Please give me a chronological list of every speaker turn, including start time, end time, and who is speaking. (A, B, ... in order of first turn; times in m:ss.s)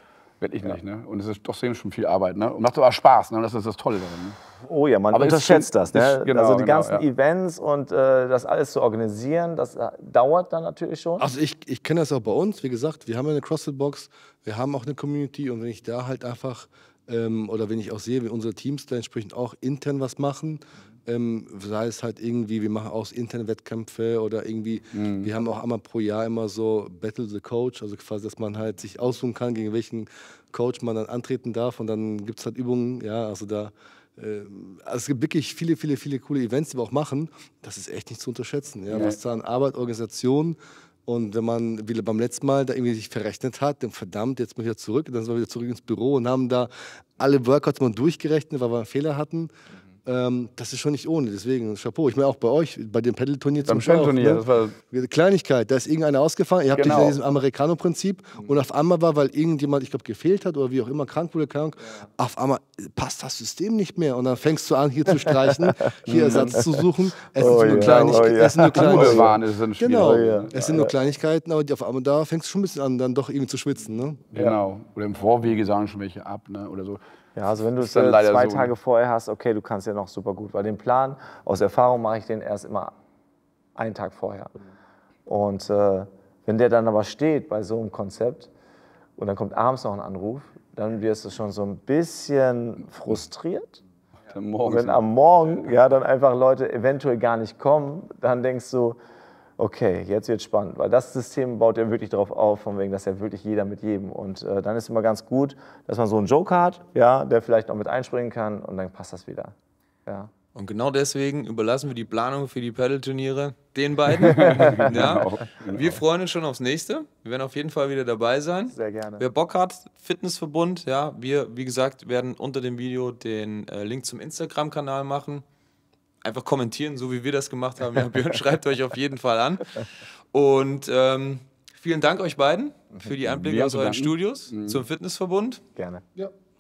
0:00.4-0:04.4 A
0:04.6-0:11.3 B
0:05.1-0:07.0 A
0:11.2-0:49.5 C
0:24.9-0:25.3 A
0:38.9-0:39.2 A
0:50.0-1:14.3 C
0:53.7-0:54.8 A
0:56.7-0:57.2 A
1:06.1-1:06.6 A
1:06.1-1:06.7 B
1:07.4-1:09.4 B
1:07.4-1:10.5 A
1:09.9-1:10.9 B
1:14.3-1:17.0 A
1:17.4-1:22.9 B
1:17.8-1:18.7 A
1:23.8-1:24.6 B
1:25.3-1:28.5 B
1:29.2-1:33.8 B
1:34.3-1:35.0 A
1:34.6-1:39.0 B
1:39.6-1:49.6 B
1:50.1-1:50.3 B
1:50.6-2:05.4 D
1:54.2-1:56.0 A
1:58.7-1:59.2 B
2:06.2-2:15.6 D
2:13.3-2:14.8 A
2:15.8-2:16.0 B